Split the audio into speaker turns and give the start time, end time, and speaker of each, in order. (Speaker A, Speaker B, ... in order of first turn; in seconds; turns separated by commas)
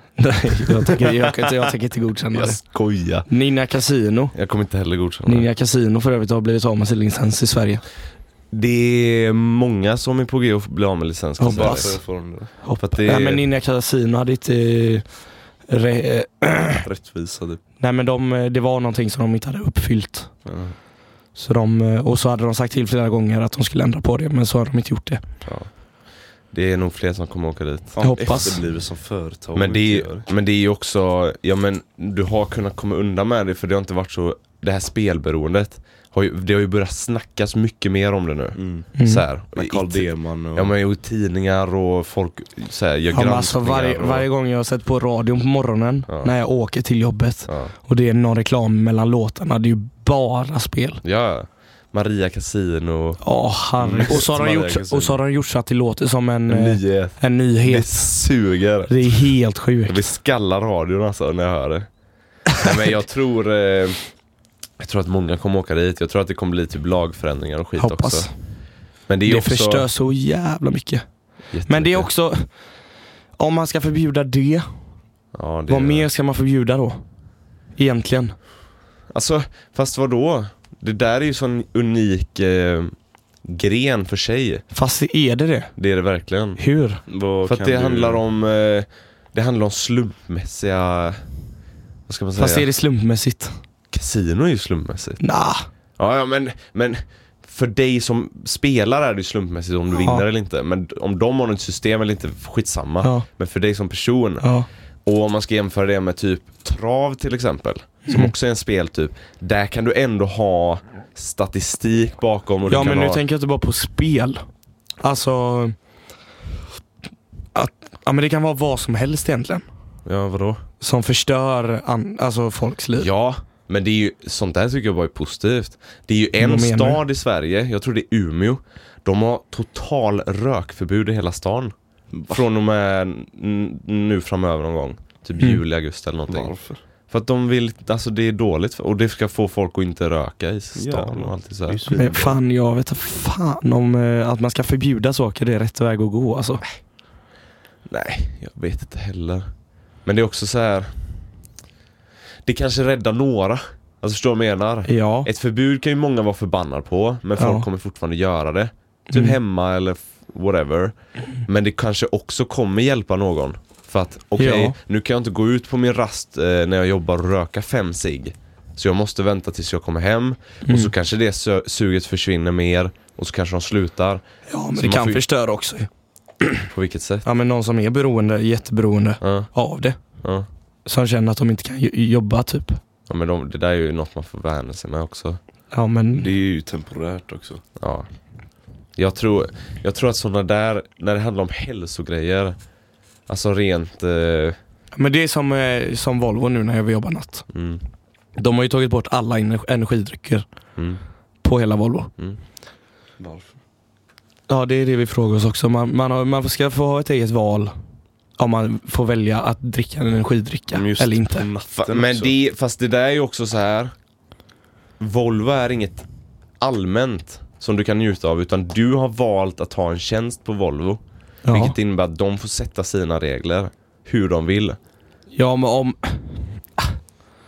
Speaker A: 0.2-2.6, Speaker B: 0.7-1.1, Speaker B: 2.3-3.3, Speaker A: 3.3-4.3, Speaker B: 4.3-5.5, Speaker A: 5.2-7.8, Speaker B: 8.5-12.0, Speaker A: 11.4-16.8, Speaker C: 11.4-12.5, Speaker B: 12.8-13.4, Speaker C: 16.8-17.6, Speaker A: 17.8-20.3, Speaker C: 20.4-20.8, Speaker A: 21.4-25.2, Speaker B: 26.5-28.6, Speaker C: 27.9-30.3, Speaker A: 28.0-28.6, Speaker B: 29.6-44.3, Speaker C: 38.6-38.9, Speaker A: 39.0-39.2, Speaker C: 39.5-40.7, Speaker A: 43.1-51.0, Speaker B: 47.5-47.7, Speaker B: 51.0-53.2, Speaker A: 53.2-58.2, Speaker C: 53.8-54.4, Speaker B: 53.9-55.2, Speaker B: 56.5-59.3, Speaker A: 58.9-60.0, Speaker B: 59.9-61.9, Speaker B: 62.6-64.0, Speaker B: 64.8-68.3, Speaker A: 67.8-68.3, Speaker B: 69.1-69.9, Speaker A: 69.3-71.0, Speaker B: 71.5-72.1, Speaker A: 71.7-72.6, Speaker A: 73.4-74.8, Speaker B: 75.3-76.1, Speaker A: 75.7-77.0, Speaker A: 77.8-78.4, Speaker B: 79.1-82.9, Speaker B: 83.4-84.6, Speaker A: 84.7-85.7, Speaker B: 85.8-86.6, Speaker A: 86.6-87.0, Speaker C: 87.1-88.2, Speaker B: 87.5-91.2, Speaker B: 92.1-92.7, Speaker A: 92.4-93.6, Speaker B: 93.9-95.2, Speaker A: 95.2-95.7, Speaker B: 96.0-104.5, Speaker A: 99.9-100.2, Speaker A: 104.4-104.7, Speaker B: 105.0-113.2, Speaker A: 108.1-108.3, Speaker A: 112.7-114.5, Speaker A: 115.0-115.8, Speaker A: 117.5-119.7, Speaker B: 120.0-120.6, Speaker A: 120.8-123.1, Speaker B: 123.0-131.7, Speaker A: 126.4-127.0, Speaker C: 132.1-132.4, Speaker B: 132.3-136.5, Speaker C: 136.3-136.8, Speaker B: 137.1-141.9, Speaker C: 140.8-142.4, Speaker A: 141.9-146.6, Speaker B: 147.9-149.5, Speaker B: 150.1-151.0, Speaker B: 152.5-175.2, Speaker A: 154.9-155.3, Speaker A: 157.4-157.7, Speaker A: 159.1-159.4, Speaker A: 164.4-164.8, Speaker A: 170.7-170.9, Speaker A: 174.5-175.9, Speaker B: 176.7-177.3, Speaker A: 177.2-180.0, Speaker B: 179.2-179.5, Speaker A: 180.9-182.8, Speaker B: 183.1-185.4, Speaker A: 185.7-186.3, Speaker C: 186.2-187.6, Speaker B: 187.8-188.1, Speaker B: 189.0-192.6, Speaker B: 193.3-194.6, Speaker A: 194.9-197.5, Speaker B: 197.5-197.8, Speaker A: 198.4-200.5, Speaker A: 201.4-202.1, Speaker C: 203.2-203.5, Speaker A: 204.5-207.7, Speaker A: 208.4-211.5, Speaker C: 210.7-212.3, Speaker B: 211.8-213.9, Speaker B: 215.0-216.1, Speaker B: 216.6-224.8, Speaker A: 221.4-221.8, Speaker A: 225.3-226.9